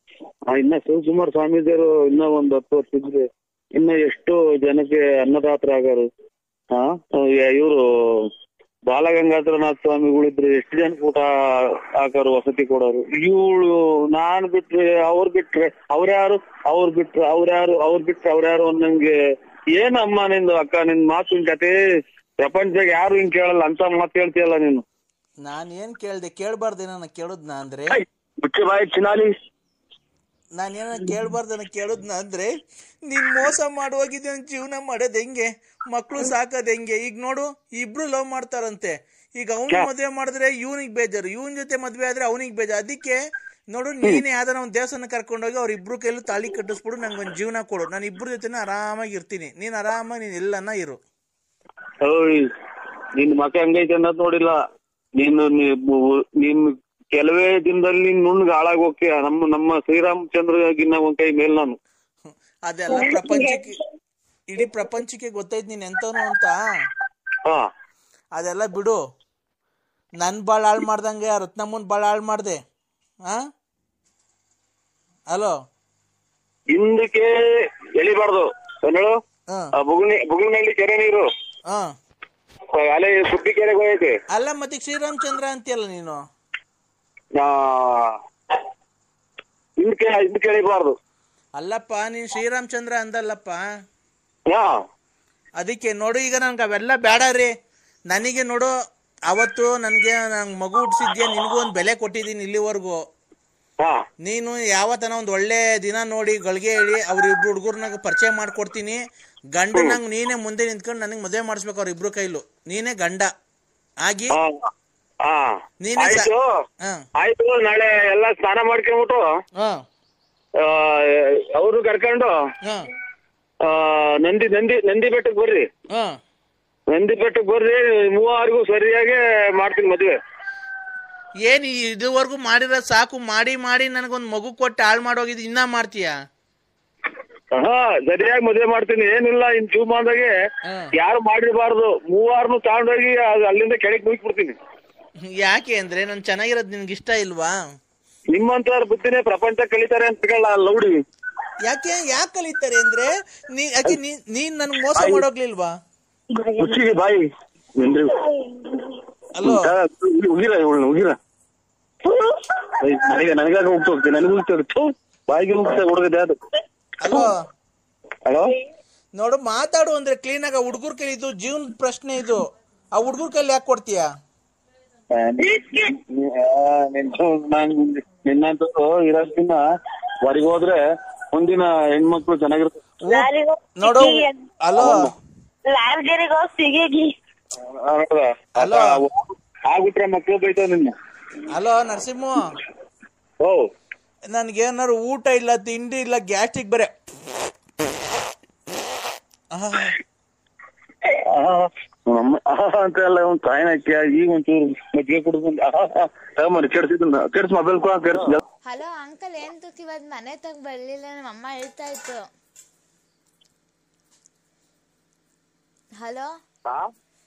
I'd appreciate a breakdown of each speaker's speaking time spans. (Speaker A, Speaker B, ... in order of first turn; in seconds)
Speaker A: 0.4-6.1, 6.7-8.3, 8.9-19.1, 19.7-21.8, 22.4-24.8, 27.9-29.4, 52.0-52.5, 53.1-54.6, 55.2-61.8, 76.7-79.2, 79.8-81.2, 82.7-84.2, 87.3-88.2, 89.8-91.0, 94.5-94.8, 103.8-104.0, 114.3-114.7, 115.2-116.6, 117.2-119.2, 120.6-122.3, 123.6-125.7, 126.9-130.2, 137.5-140.3, 140.9-144.6, 148.3-151.0, 154.9-155.2, 156.6-158.2, 159.4-161.2, 162.8-166.4, 168.2-168.5, 175.1-179.6, 180.2-180.8, 181.3-182.8, 184.8-185.1, 187.6-190.9, 201.0-208.4
Speaker B: 25.4-28.0, 30.6-32.5, 33.0-43.2, 43.7-51.0, 62.6-63.8, 64.5-66.6, 68.3-69.0, 70.2-72.6, 75.3-75.5, 84.3-86.2, 91.6-93.6, 95.6-97.5, 98.1-98.7, 99.3-103.0, 104.2-109.0, 109.5-113.3, 114.0-114.4, 115.8-116.3, 119.6-119.8, 125.9-126.2, 131.5-136.1, 140.7-140.9, 145.4-147.5, 151.6-155.7, 159.3-159.7, 167.0-167.4, 169.2-174.1, 183.1-185.0, 188.6-188.9, 191.5-192.4, 194.3-196.9, 199.5-200.0
Speaker C: 62.9-63.5, 156.3-156.7, 183.1-184.3, 185.7-187.1
Speaker D: 208.6-212.3, 216.0-216.3